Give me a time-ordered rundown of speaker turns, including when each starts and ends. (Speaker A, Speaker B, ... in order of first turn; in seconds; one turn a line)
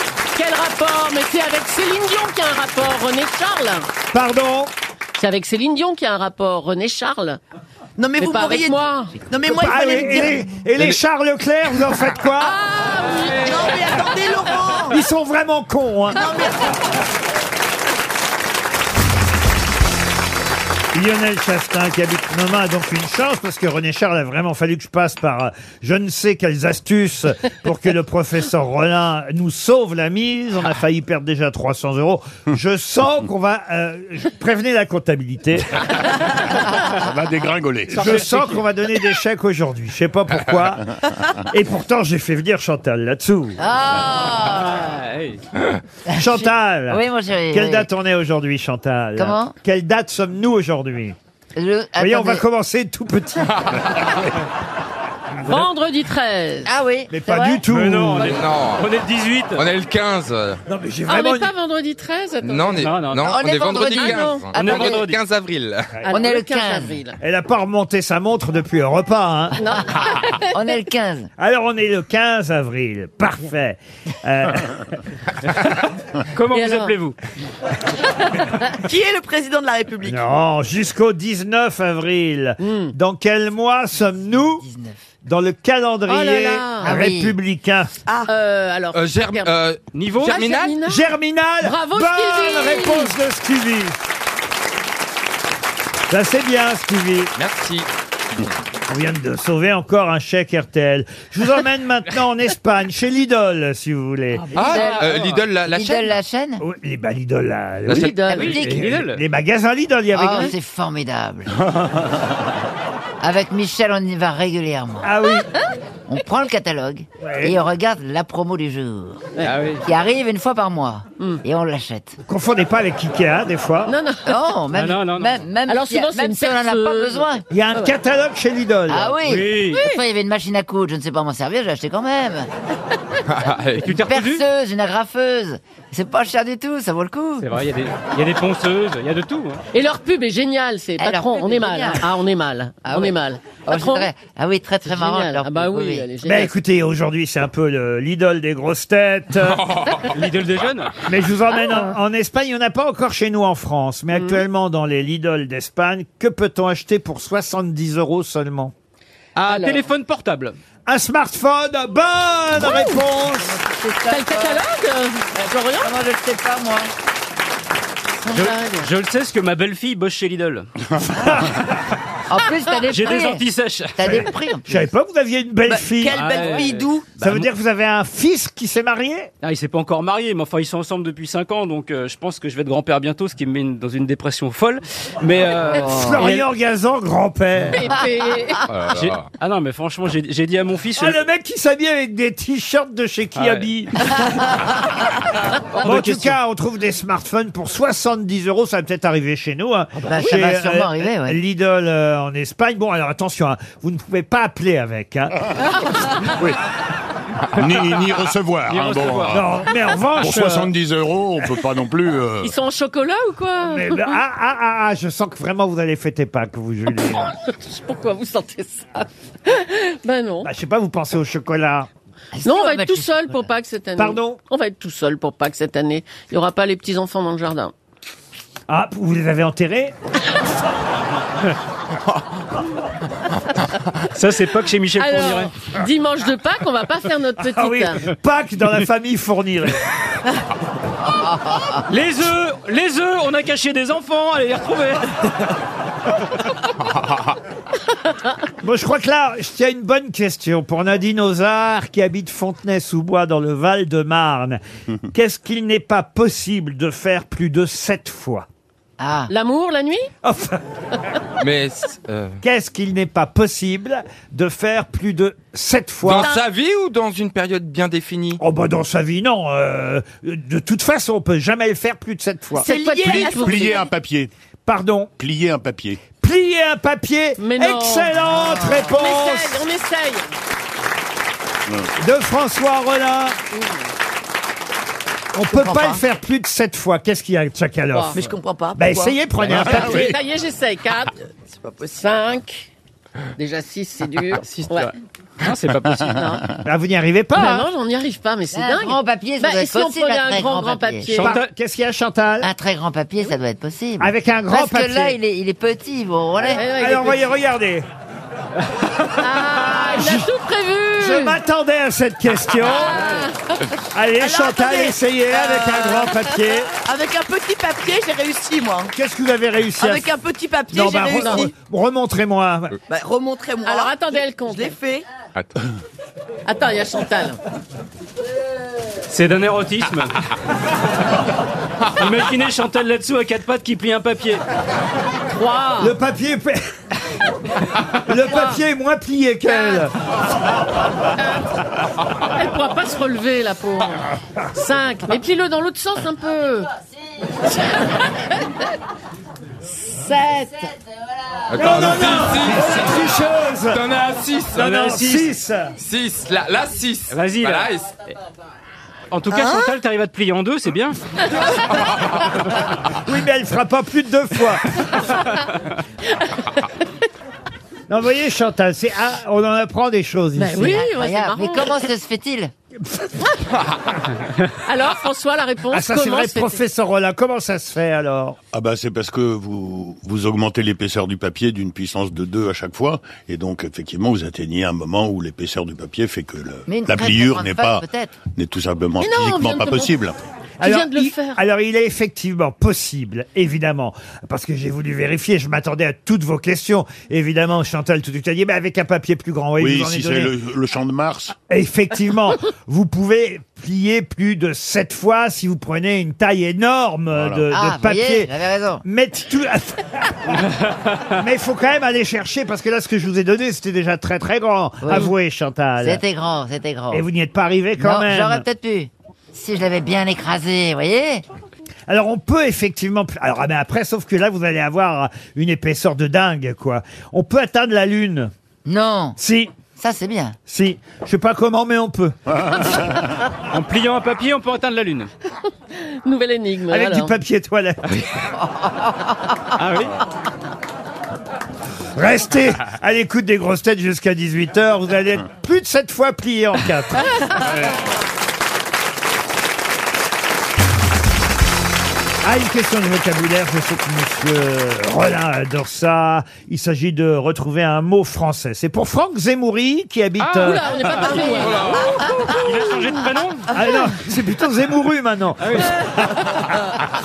Speaker A: 0.3-3.9
Speaker B: 4.1-4.7
Speaker A: 5.2-7.4
Speaker C: 8.0-10.4
Speaker A: 8.2-9.2
Speaker B: 9.5-12.6
Speaker A: 12.4-14.0
Speaker C: 13.3-15.0
Speaker B: 14.9-16.2
Speaker C: 16.1-16.8
Speaker B: 20.9-35.8
Speaker D: 36.9-38.2
Speaker B: 37.9-43.6
Speaker E: 38.0-38.6
Speaker F: 43.6-44.9
Speaker E: 44.5-45.4
Speaker F: 46.1-47.9
Speaker B: 46.1-51.2
Speaker F: 49.2-49.5
Speaker F: 51.5-52.4
Speaker B: 52.0-53.8
Speaker G: 53.6-54.1
Speaker A: 55.4-56.7
Speaker F: 56.6-57.7
Speaker B: 57.1-58.3
Speaker E: 57.7-59.7
Speaker G: 58.2-58.9
Speaker G: 59.5-60.6
Speaker B: 60.7-61.5
Speaker A: 61.1-62.8
Speaker G: 62.4-65.9
Speaker E: 62.8-63.4
Speaker F: 63.3-65.0
Speaker A: 63.7-64.5
Speaker E: 64.5-65.2
Speaker A: 66.0-67.2
Speaker F: 66.1-67.0
Speaker B: 67.2-69.6
Speaker A: 69.6-70.5
Speaker F: 70.3-71.3
Speaker B: 71.4-75.0
Speaker E: 76.3-77.2
Speaker A: 76.5-76.9
Speaker C: 78.8-80.2
Speaker B: 80.0-84.6
Speaker A: 82.6-83.0
Speaker F: 84.2-85.1
Speaker B: 85.2-87.9
Speaker A: 86.1-87.0
Speaker F: 86.8-87.4
Speaker A: 88.3-89.5
Speaker G: 88.9-90.7
Speaker E: 89.9-90.6
Speaker A: 90.2-93.2
Speaker B: 90.8-94.0
Speaker B: 96.1-97.3
Speaker G: 97.4-98.5
Speaker B: 98.9-104.5
Speaker E: 104.5-105.4
Speaker G: 104.5-106.2
Speaker F: 104.6-105.2
Speaker F: 105.7-106.6
Speaker B: 106.6-110.5
Speaker G: 107.9-108.2
Speaker A: 107.9-108.6
Speaker E: 108.3-109.2
Speaker F: 108.4-108.8
Speaker F: 110.1-111.5
Speaker A: 110.3-110.5
Speaker F: 113.2-115.2
Speaker B: 115.0-115.5
Speaker F: 116.1-122.2
Speaker B: 117.2-117.6
Speaker E: 119.4-119.8
Speaker B: 122.3-123.9
Speaker A: 123.9-124.4
Speaker F: 124.3-127.5
Speaker E: 124.7-125.3
Speaker A: 125.7-127.9
Speaker B: 127.5-129.2
Speaker F: 128.9-132.5
Speaker E: 129.2-129.8
Speaker A: 129.7-130.0
Speaker G: 133.3-133.9
Speaker E: 133.8-134.4
Speaker F: 133.8-137.6
Speaker E: 137.4-139.6
Speaker A: 139.7-144.1
Speaker F: 141.0-142.1
Speaker F: 142.8-146.1
Speaker A: 144.8-146.6
Speaker B: 146.2-149.8
Speaker G: 149.4-150.1
Speaker E: 150.1-151.0
Speaker B: 151.1-158.7
Speaker A: 154.1-154.4
Speaker E: 159.3-160.6
Speaker A: 159.5-159.8
Speaker B: 160.9-163.6
Speaker F: 162.6-164.6
Speaker A: 164.1-165.9
Speaker F: 165.7-166.9
Speaker A: 168.2-168.9
Speaker E: 168.3-170.7
Speaker B: 171.2-171.5
Speaker F: 172.3-174.9
Speaker E: 172.9-174.3
Speaker B: 174.0-176.5
Speaker C: 175.7-177.2
Speaker E: 176.2-177.4
Speaker B: 177.2-179.3
Speaker E: 179.4-186.5
Speaker F: 185.7-186.3
Speaker B: 185.8-187.9
Speaker A: 187.7-188.6
Speaker G: 188.7-189.3
Speaker E: 188.9-191.2
Speaker B: 191.0-194.2
Speaker E: 193.4-193.7
Speaker E: 195.7-196.4
Speaker B: 195.8-205.4
Speaker F: 200.1-201.4
Speaker D: 207.5-209.5
Speaker E: 208.7-209.4
Speaker B: 209.3-210.7
Speaker D: 210.2-212.5
Speaker A: 212.4-214.2
Speaker B: 213.7-217.3
Speaker A: 217.2-220.5
Speaker B: 220.4-221.9
Speaker F: 222.3-223.5
Speaker A: 222.4-227.7
Speaker B: 224.0-224.4
Speaker B: 228.7-229.9
Speaker E: 234.1-235.5
Speaker A: 235.0-238.1
Speaker B: 237.4-239.8
Speaker E: 241.9-245.5
Speaker B: 248.6-254.6
Speaker B: 255.1-258.5
Speaker F: 259.0-259.3
Speaker A: 259.3-260.1
Speaker B: 260.2-260.6
Speaker G: 261.4-262.4
Speaker B: 262.4-266.3
Speaker G: 266.0-268.4
Speaker B: 268.4-272.7
Speaker A: 272.6-273.9
Speaker C: 272.6-273.8
Speaker D: 273.0-274.3
Speaker B: 274.7-275.1
Speaker D: 275.2-276.1
Speaker B: 276.2-279.6
Speaker A: 277.4-280.3
Speaker B: 282.0-283.4
Speaker A: 283.5-283.9
Speaker B: 285.3-290.2
Speaker C: 285.5-286.0
Speaker C: 288.1-289.2
Speaker D: 289.5-290.1
Speaker A: 289.6-291.1
Speaker C: 291.6-292.0
Speaker A: 291.9-292.7
Speaker A: 293.4-294.9
Speaker E: 294.4-296.3
Speaker D: 295.9-296.6
Speaker A: 296.1-296.4
Speaker B: 296.6-297.7
Speaker A: 297.4-301.4
Speaker F: 298.5-301.2
Speaker B: 301.1-302.5
Speaker E: 301.2-301.5
Speaker F: 302.4-306.6
Speaker B: 304.0-305.2
Speaker A: 306.4-307.2
Speaker B: 306.6-307.9
Speaker A: 309.2-311.4
Speaker B: 309.5-310.3
Speaker B: 311.0-313.2
Speaker A: 312.7-313.7
Speaker B: 313.9-316.7
Speaker C: 314.2-316.2
Speaker C: 316.8-318.9
Speaker B: 318.9-320.1
Speaker C: 319.8-321.5
Speaker B: 320.7-322.8
Speaker A: 321.2-321.5
Speaker C: 322.9-325.1
Speaker A: 323.6-324.8
Speaker A: 326.5-327.4
Speaker E: 329.1-330.2
Speaker E: 332.0-334.4
Speaker A: 335.3-335.9
Speaker B: 335.8-336.6
Speaker B: 338.1-339.9
Speaker A: 338.3-338.6
Speaker A: 339.5-339.8
Speaker A: 342.3-346.7
Speaker A: 347.4-348.7
Speaker A: 349.6-350.7
Speaker G: 351.5-353.1
Speaker B: 351.6-353.8
Speaker G: 353.7-354.7
Speaker B: 354.6-355.7
Speaker E: 354.6-355.3
Speaker G: 355.8-357.9
Speaker E: 357.1-357.7
Speaker E: 359.1-361.0
Speaker C: 359.3-359.7
Speaker B: 363.1-365.1
Speaker A: 366.2-366.7
Speaker B: 367.9-370.9
Speaker A: 370.4-371.8
Speaker F: 370.6-372.5
Speaker B: 372.8-373.5
Speaker A: 374.6-376.6
Speaker B: 375.7-378.4
Speaker D: 378.5-390.2
Speaker F: 386.7-388.2
Speaker A: 389.0-390.0
Speaker B: 390.6-400.3
Speaker A: 390.6-391.4
Speaker D: 399.6-401.3
Speaker B: 401.5-408.3
Speaker D: 407.1-407.5
Speaker F: 407.5-408.8
Speaker B: 408.8-410.5
Speaker B: 411.1-416.0
Speaker F: 414.8-415.1
Speaker F: 415.8-417.1
Speaker B: 416.9-418.4
Speaker F: 417.8-421.2
Speaker B: 421.9-428.3
Speaker F: 428.6-429.2
Speaker B: 429.2-429.5
Speaker F: 429.8-430.4
Speaker B: 430.5-432.8
Speaker D: 432.4-433.0
Speaker E: 433.5-435.1
Speaker A: 435.8-437.1
Speaker B: 436.7-437.8
Speaker E: 439.6-440.0
Speaker B: 441.9-447.5
Speaker D: 447.4-447.7
Speaker B: 452.2-460.9
Speaker E: 460.2-461.6
Speaker A: 460.4-462.3
Speaker G: 461.4-462.0
Speaker E: 462.3-463.5
Speaker B: 463.5-466.4
Speaker E: 465.4-465.8